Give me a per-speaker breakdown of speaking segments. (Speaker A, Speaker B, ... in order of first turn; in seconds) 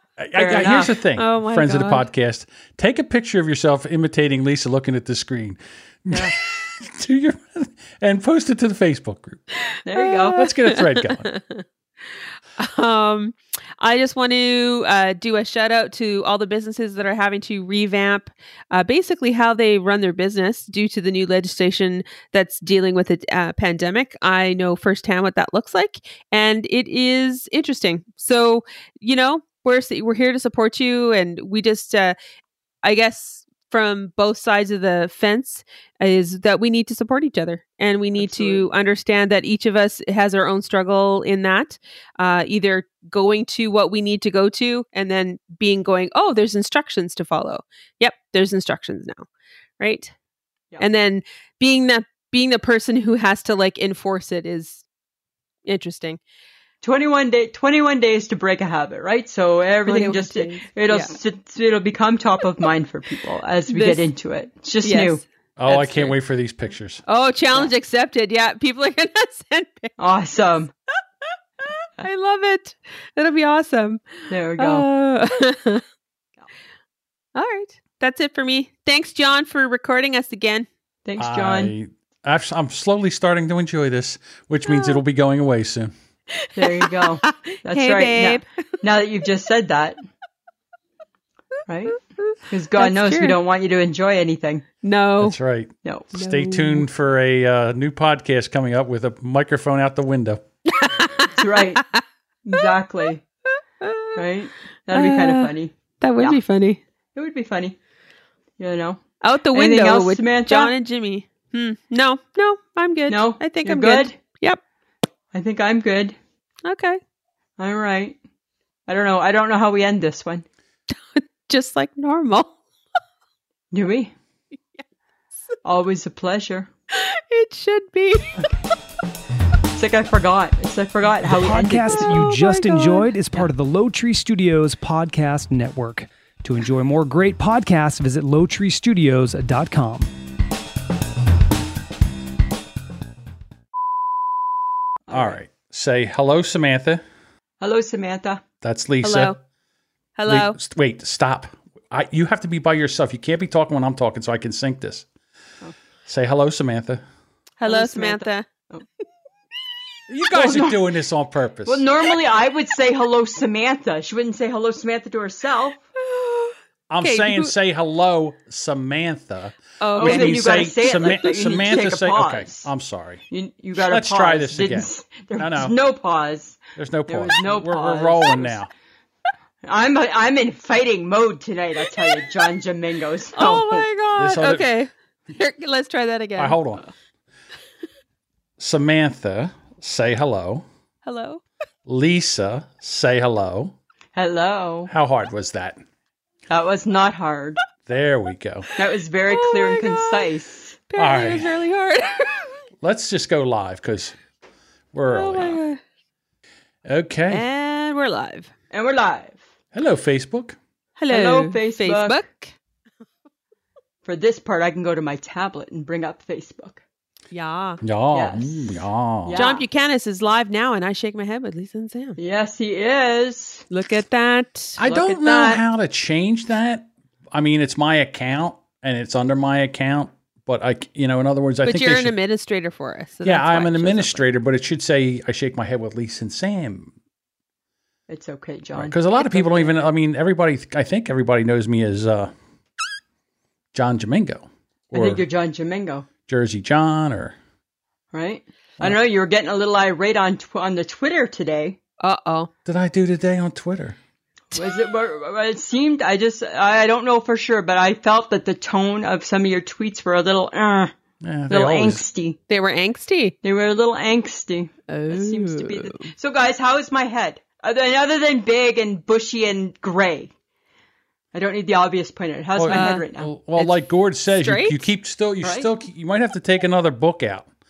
Speaker A: 0.2-9.4, 10.4-11.3, 65.6-67.0, 81.2-85.9, 95.2-100.4, 145.1-147.0, 148.6-149.3, 150.3-155.1, 156.1-157.0, 160.1-161.8, 166.9-173.2, 173.8-175.7, 176.8-178.7, 184.2-184.7, 186.4-186.8, 188.6-190.6, 191.8-193.7, 194.9-195.8, 197.8-198.7, 201.0-201.5, 202.8-204.1, 204.9-205.6, 206.8-207.4, 209.7-210.6, 217.8-219.4, 224.8-232.1, 233.2-236.9, 238.8-242.3, 243.7-245.2, 246.3-247.3, 252.7-254.0, 261.2-262.0, 272.6-277.5
Speaker B: 0.3-0.9, 9.8-10.4, 38.1-38.6, 56.8-65.2, 70.0-70.7, 74.3-74.8, 81.0-81.7, 86.5-90.0, 91.7-94.6, 95.8-96.1, 101.4-101.8, 102.4-103.2, 104.2-106.4, 107.1-107.8, 108.6-110.7, 113.1-114.2, 115.3-116.2, 117.6-118.2, 118.9-120.4, 123.7-124.1, 125.6-126.7, 129.7-132.2, 145.1-145.4, 147.6-148.4, 157.7-158.8, 160.3-160.9, 161.7-165.8, 170.0-172.7, 173.3-178.6, 179.6-183.8, 194.1-194.9, 196.5-197.6, 198.8-200.8, 208.7-209.4, 211.1-212.2, 214.0-216.8, 218.1-219.6, 222.2-223.7, 224.8-225.6, 238.1-239.0, 244.9-246.1, 248.1-251.8, 254.5-260.9, 261.5-262.4, 263.4-270.3, 271.3-273.3, 275.4-275.7
Speaker C: 0.5-2.0, 9.7-32.1, 32.8-49.2, 49.8-50.1, 50.8-54.8, 55.6-56.2, 59.9-61.1, 63.7-64.1, 64.8-66.1, 67.0-69.9, 71.6-74.0, 74.6-75.8, 77.3-80.7, 84.7-85.0, 86.3-88.4, 92.2-93.4, 94.8-95.4, 96.1-96.9, 100.7-102.0, 103.8-104.2, 104.9-106.8, 109.2-114.6, 116.6-117.0, 120.9-122.5, 126.9-128.5, 131.9-133.4, 149.0-149.3, 150.2-150.6, 157.6-158.5, 166.0-167.5, 169.8-170.7, 181.9-182.2, 183.3-186.6, 191.0-191.4, 199.3-200.3, 200.9-202.6, 205.1-205.8, 207.3-208.5, 211.0-212.5, 217.3-217.8, 219.3-222.2, 223.7-224.8, 231.6-234.2, 252.0-252.5, 262.5-263.3, 264.9-266.1, 272.7-273.0, 273.6-274.8
Speaker D: 131.2-140.1